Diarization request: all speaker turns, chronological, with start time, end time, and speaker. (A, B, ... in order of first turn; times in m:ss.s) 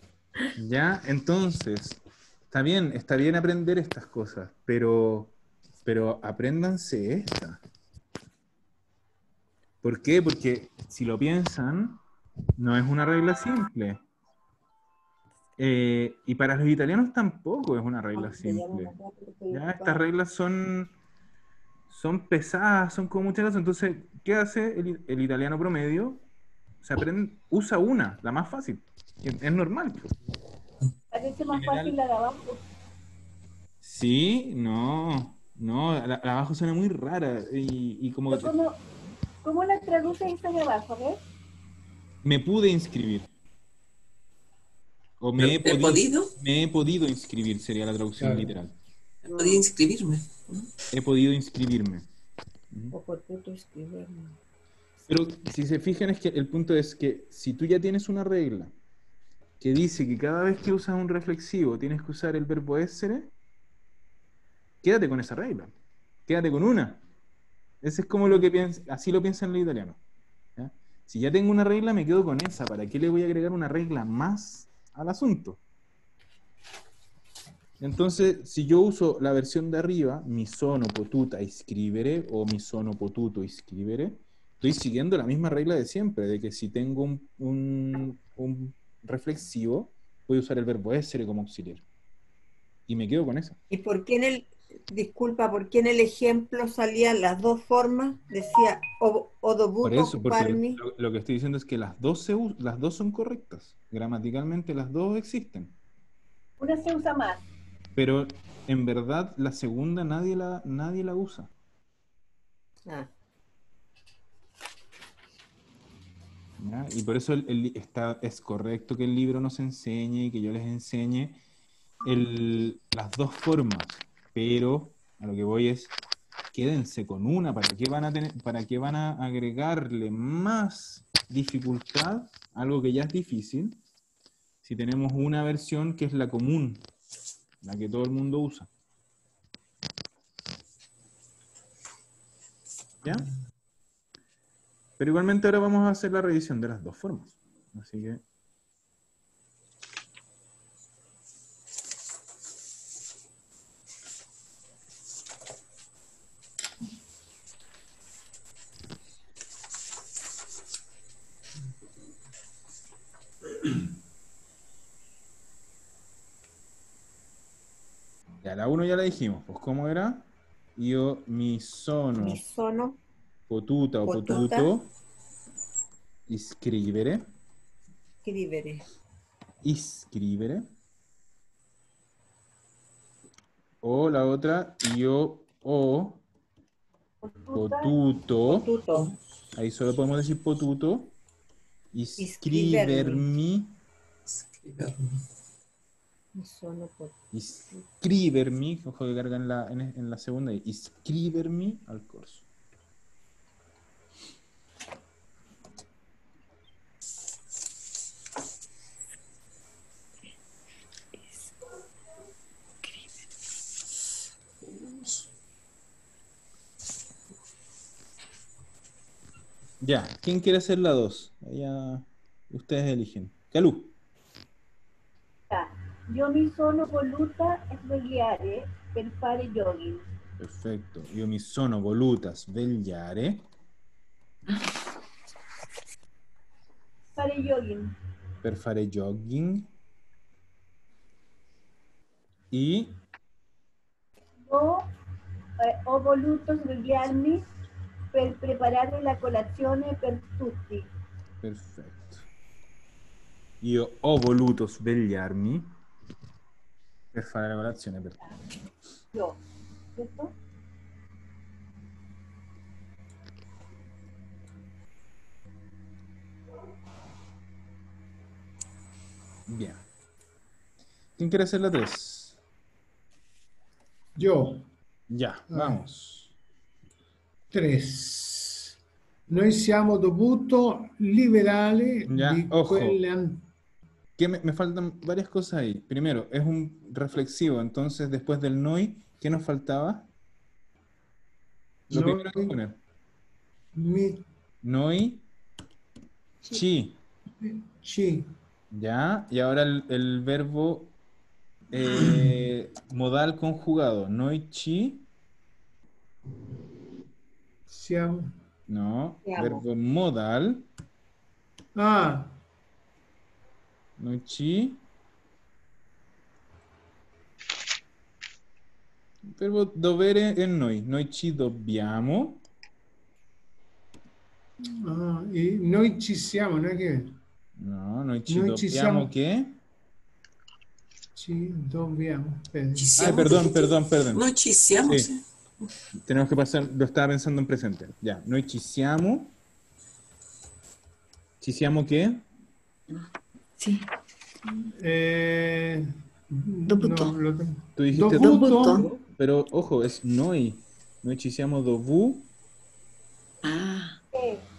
0:00.6-0:07.6 A
0:09.8-0:12.0 A
0:12.6-0:14.0 A
0:15.6-0:19.0 A
0:18.2-0:20.0 B
0:19.5-0:21.0 A
0:21.9-0:26.2 A
0:26.8-0:30.1 A
0:31.1-0:32.6 C
0:31.5-0:32.0 A
0:33.8-0:38.5 A
0:38.3-0:38.8 C
0:39.4-0:41.2 C
0:42.2-0:43.3 A
0:45.2-0:48.8 A
0:45.4-0:46.3 D
0:48.2-0:48.5 E
0:49.2-0:50.3 D
0:49.3-0:49.7 B
0:50.9-0:52.1 A
0:52.9-0:54.4 B
0:55.1-0:58.7 A
0:59.6-1:03.3 A
1:04.8-1:05.7 A
1:06.3-1:07.0 A
1:07.8-1:10.0 A
1:10.6-1:15.6 A
1:17.8-1:31.8 A
1:32.9-1:33.6 A
1:33.7-1:40.8 B
1:39.8-1:45.8 A
1:46.6-1:47.4 C
1:48.0-1:51.5 A
1:56.6-2:01.4 A
2:02.0-2:06.0 A
2:06.5-2:13.8 A
2:14.6-2:16.8 A
2:17.6-2:18.7 A
2:23.0-2:23.3 A
2:25.0-2:28.2 A
2:48.4-2:52.4 A
2:52.2-2:53.0 B
2:53.5-2:54.9 A
2:54.0-2:54.7 B
2:56.3-2:57.2 A
2:58.2-2:58.8 B
2:59.6-3:00.6 A
3:03.8-3:06.2 A
3:07.2-3:08.0 C
3:07.5-3:08.7 A
3:08.5-3:09.2 B
3:09.5-3:11.2 A
3:11.9-3:13.8 A
3:12.2-3:13.3 B
3:14.3-3:15.2 D
3:16.4-3:17.2 B
3:17.3-3:22.5 A
3:39.8-3:43.9 A
3:45.5-3:50.1 C
3:50.4-3:53.5 A
3:57.2-3:58.0 C
3:58.4-3:59.7 A
4:02.5-4:03.0 A
4:04.5-4:04.9 C
4:05.6-4:07.5 C
4:08.1-4:10.9 C
4:11.4-4:12.3 A
4:13.6-4:15.7 A
4:17.1-4:18.2 A
4:19.1-4:19.4 C
4:20.0-4:20.4 C
4:29.5-4:29.8 A
4:31.2-4:32.4 A
4:34.2-4:34.7 E
4:35.1-4:36.4 A
4:35.5-4:35.8 E
4:37.5-4:38.8 E
4:39.3-4:43.5 E
4:42.1-4:43.0 A
4:44.2-4:50.1 A
4:51.9-4:52.6 E
4:51.9-4:52.8 A
4:53.7-4:54.2 E
4:54.6-4:55.3 A
4:56.5-4:57.0 A
4:57.4-4:58.3 E
4:58.7-5:01.0 A
5:01.7-5:05.1 A
5:07.7-5:08.3 E
5:08.7-5:10.7 A
5:09.3-5:09.6 B
5:11.8-5:12.4 E
5:14.0-5:14.8 A
5:19.3-5:22.4 A
5:24.6-5:27.1 E
5:27.6-5:29.6 A
5:28.3-5:29.1 E
5:31.2-5:33.3 E
5:32.8-5:35.2 D
5:33.0-5:34.3 A
5:34.8-5:35.1 A
5:36.0-5:39.4 A
5:41.4-5:42.2 A
5:43.6-5:43.9 F
5:44.8-5:48.9 E
5:46.7-5:47.2 F
5:47.8-5:52.3 A
5:48.1-5:48.9 F
5:53.4-5:54.0 F
5:54.1-5:54.4 C